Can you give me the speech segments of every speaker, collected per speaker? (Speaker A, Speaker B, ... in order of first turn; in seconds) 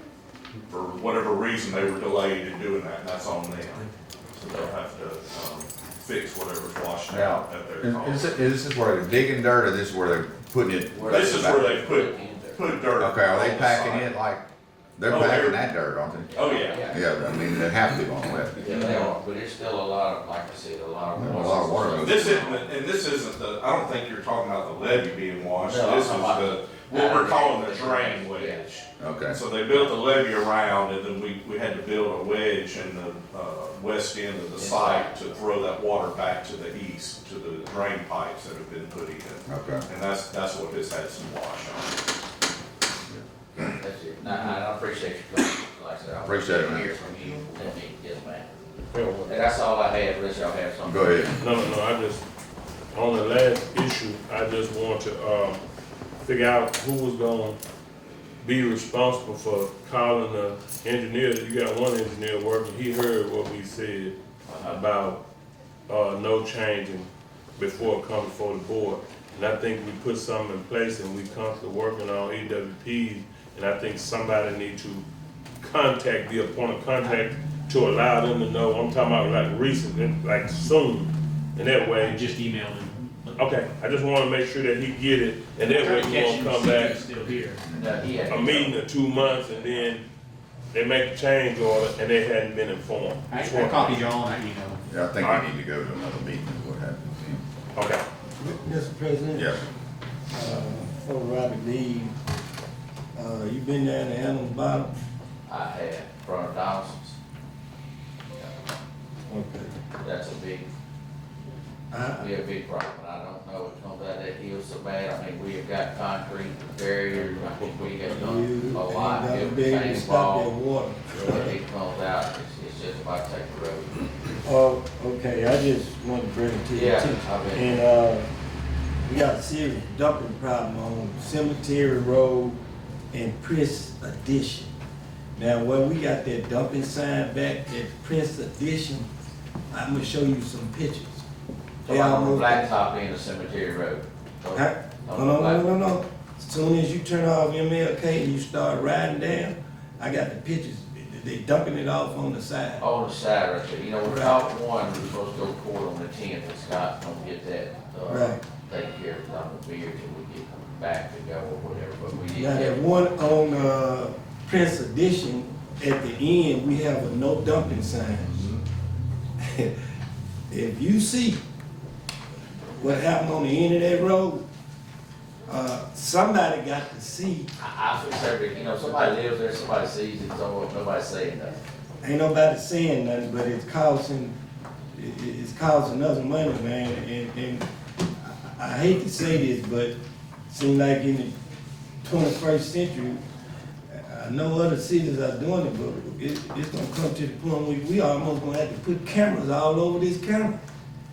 Speaker A: 0.7-8.4, 11.0-14.1, 15.1-15.7, 16.3-16.9, 22.0-42.0
Speaker B: 4.5-4.7, 10.9-12.8, 16.3-17.0, 18.6-22.7, 25.6-28.6, 34.6-35.1, 43.6-48.5, 49.3-51.3, 87.7-89.9, 105.5-107.2, 110.0-110.7, 112.1-120.5, 121.2-124.1, 126.7-127.8, 141.8-145.7, 152.8-162.8, 177.6-181.6
Speaker C: 7.1-11.7, 13.0-14.4, 15.0-16.3, 16.9-18.6, 21.2-22.5, 29.0-29.4, 39.5-39.9, 46.2-46.9, 50.9-51.4, 94.9-97.4, 99.3-99.6
Speaker D: 48.9-49.4, 51.3-52.2, 52.9-55.6, 56.2-57.6, 58.4-65.2, 65.9-75.0, 75.6-82.3, 83.4-87.2, 88.3-90.0, 90.7-94.1, 95.2-95.5, 97.8-98.0
Speaker E: 81.9-83.3, 85.7-87.6, 93.3-94.8
Speaker F: 98.4-99.6, 100.3-102.2, 103.2-104.9, 109.3-109.7, 111.9-112.3, 118.1-121.5, 124.4-128.3, 129.1-132.6, 133.1-134.7, 135.4-139.1, 139.7-141.3, 141.9-142.7, 144.5-152.8, 154.0-154.5, 158.1-158.4, 162.3-168.4, 169.4-169.8, 170.5-171.4, 172.8-174.4, 175.5-177.5, 182.0-184.4, 184.9-187.7, 188.2-189.9, 190.5-191.3, 192.0-193.2, 193.9-200.6